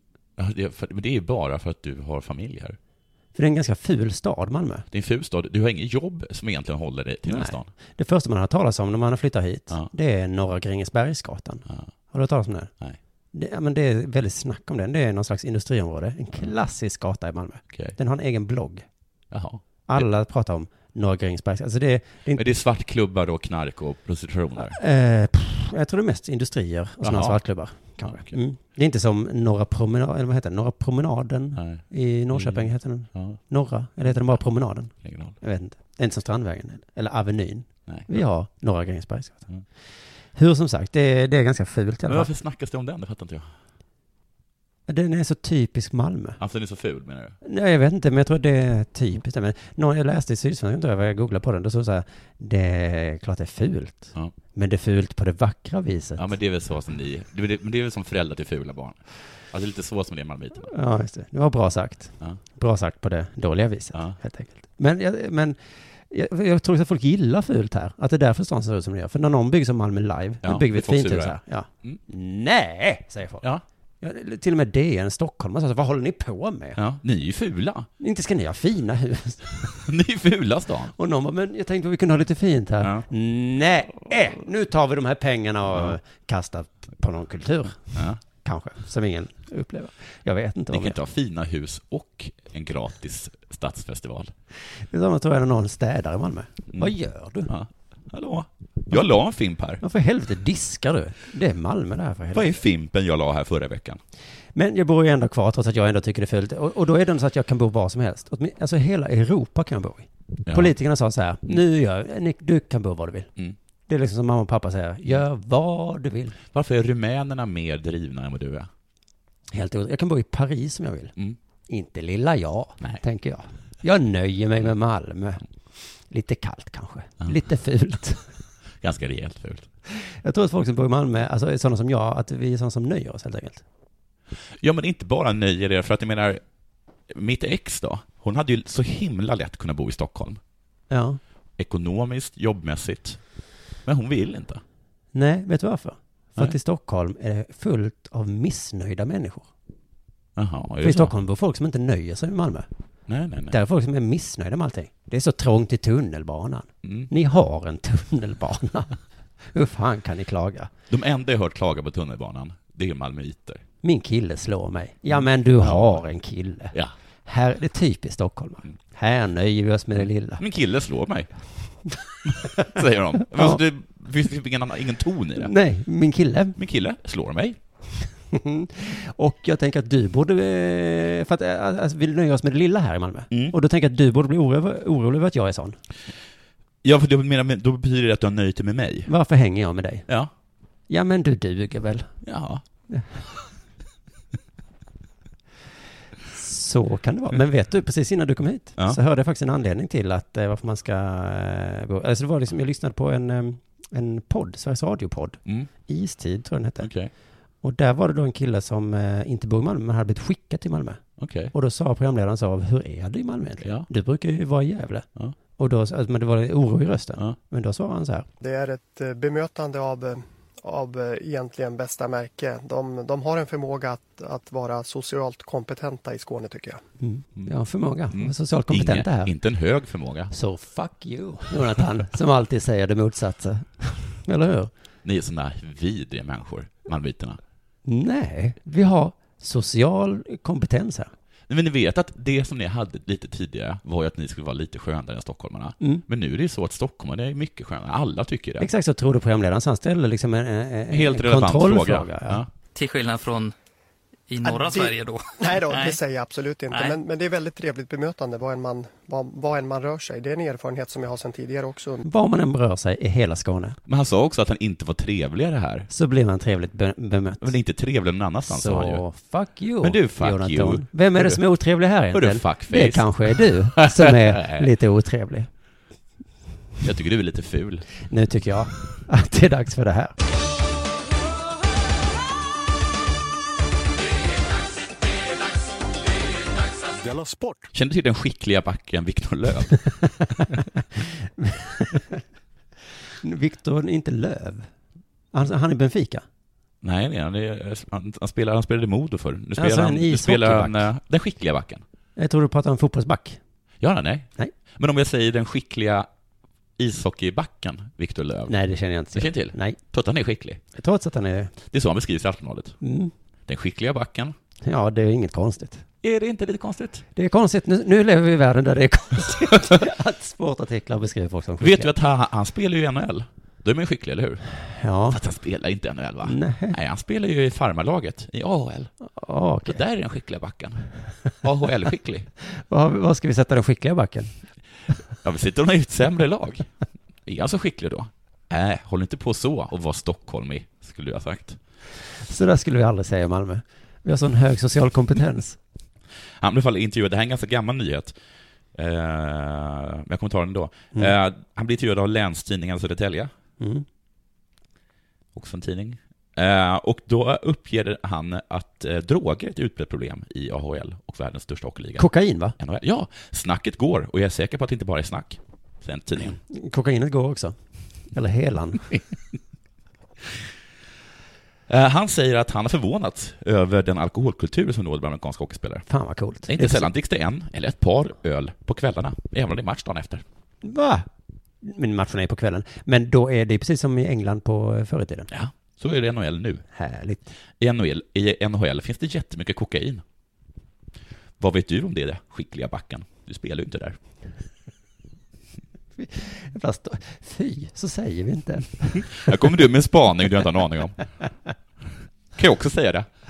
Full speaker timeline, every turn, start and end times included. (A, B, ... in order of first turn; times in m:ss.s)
0:00.4-0:02.8 A
0:03.4-0:04.8 B
0:04.9-0:07.7 A
0:07.3-0:12.7 B
0:13.3-0:18.8 B
0:17.7-0:18.0 A
0:19.3-0:20.1 A
0:19.9-0:22.4 B
0:22.4-0:24.8 A
0:24.8-0:39.5 B
0:27.0-0:28.4 A
0:31.6-0:33.4 A
0:34.1-0:34.4 A
0:35.0-0:35.4 A
0:37.9-0:38.2 A
0:40.4-0:42.3 B
0:42.1-0:43.5 A
0:44.9-0:46.4 B
0:46.4-0:47.4 A
0:47.4-0:56.2 B
0:56.2-1:00.7 A
1:00.7-1:13.4 B
1:10.4-1:12.0 A
1:14.0-1:16.8 B
1:16.8-1:17.9 A
1:18.0-1:19.5 B
1:19.8-1:20.9 A
1:21.0-1:31.0 B
1:22.8-1:23.1 A
1:27.9-1:28.2 A
1:30.7-1:34.3 A
1:34.8-1:37.5 B
1:37.5-1:39.8 A
1:39.8-1:42.6 B
1:42.3-1:44.0 A
1:44.6-1:53.3 B
1:50.5-1:50.7 A
1:53.9-1:56.4 B
1:56.5-1:58.7 A
1:59.5-2:01.1 B
2:01.7-2:05.4 B
2:06.0-2:08.3 B
2:08.8-2:09.7 A
2:09.9-2:13.6 B
2:14.6-2:16.4 A
2:17.1-2:20.4 A
2:20.9-2:21.2 B
2:21.6-2:23.2 A
2:23.8-2:24.6 A
2:25.1-2:29.5 B
2:30.4-2:31.1 A
2:30.8-2:32.7 B
2:33.1-2:33.6 A
2:33.5-2:39.0 B
2:36.8-2:37.1 A
2:39.5-2:40.7 B
2:40.9-2:43.6 A
2:43.8-2:46.7 B
2:45.1-2:46.0 A
2:47.3-2:50.4 B
2:50.4-2:51.3 A
2:52.3-2:55.5 A
2:53.3-2:53.6 B
2:55.4-2:56.6 B
2:56.6-2:57.6 A
2:58.3-3:05.8 B
3:03.3-3:03.6 A
3:06.8-3:09.1 A
3:09.1-3:10.1 B
3:10.9-3:12.1 B
3:12.2-3:12.6 A
3:16.3-3:26.9 B
3:25.4-3:25.7 A
3:26.8-3:27.1 A
3:27.6-3:38.3 B
3:31.2-3:31.5 A
3:33.6-3:33.9 A
3:38.4-3:46.8 C
3:47.0-3:49.3 B
3:48.1-3:50.3 A
3:50.3-3:54.7 B
3:55.0-3:57.4 A
3:57.9-4:01.1 B
4:01.5-4:08.7 A
4:08.6-4:12.4 B
4:10.9-4:12.5 A
4:12.8-4:13.5 D
4:14.3-4:16.0 D
4:14.4-4:22.0 C
4:16.7-4:17.0 D
4:22.0-4:23.8 B
4:23.9-4:25.9 A
4:25.9-4:27.5 B
4:27.4-4:29.0 A
4:28.5-4:35.5 B
4:29.8-4:31.4 A
4:32.1-4:34.7 A
4:36.8-4:37.9 A
4:38.1-4:40.2 B
4:47.7-4:49.8 A
4:51.4-4:52.2 B
4:53.2-4:54.7 B
4:55.3-4:56.2 B
4:56.8-5:01.8 A
4:59.6-5:00.9 B
5:02.2-5:03.4 B
5:03.8-5:06.1 A
5:06.8-5:08.6 A
5:08.5-5:09.8 B
5:09.1-5:10.6 A
5:10.8-5:11.5 B
5:11.7-5:12.8 A
5:12.8-5:13.1 B
5:13.5-5:14.4 A
5:14.6-5:15.8 B
5:16.0-5:17.1 A
5:17.2-5:21.9 B
5:21.6-5:24.4 A
5:24.8-5:25.2 B
5:25.1-5:28.9 A
5:26.2-5:26.8 B
5:29.2-5:29.8 B
5:29.6-5:30.9 A
5:31.4-5:32.3 A
5:32.6-5:34.3 B
5:35.2-5:36.7 A
5:37.3-5:41.6 A
5:42.2-5:45.6 B
5:46.4-5:48.2 A
5:48.7-5:53.3 A
5:53.6-5:53.8 B
5:55.3-6:06.4 A
6:02.0-6:02.6 B
6:06.5-6:07.6 B
6:08.1-6:08.9 B
6:11.7-6:15.9 A
6:15.9-6:16.9 B
6:16.5-6:20.2 A
6:20.6-6:21.1 B
6:21.6-6:25.3 B
6:25.3-6:26.6 A
6:26.8-6:27.3 B
6:27.6-6:30.0 A
6:31.4-6:34.0 A
6:36.0-6:39.3 B
6:39.1-6:41.0 A
6:42.4-6:43.1 A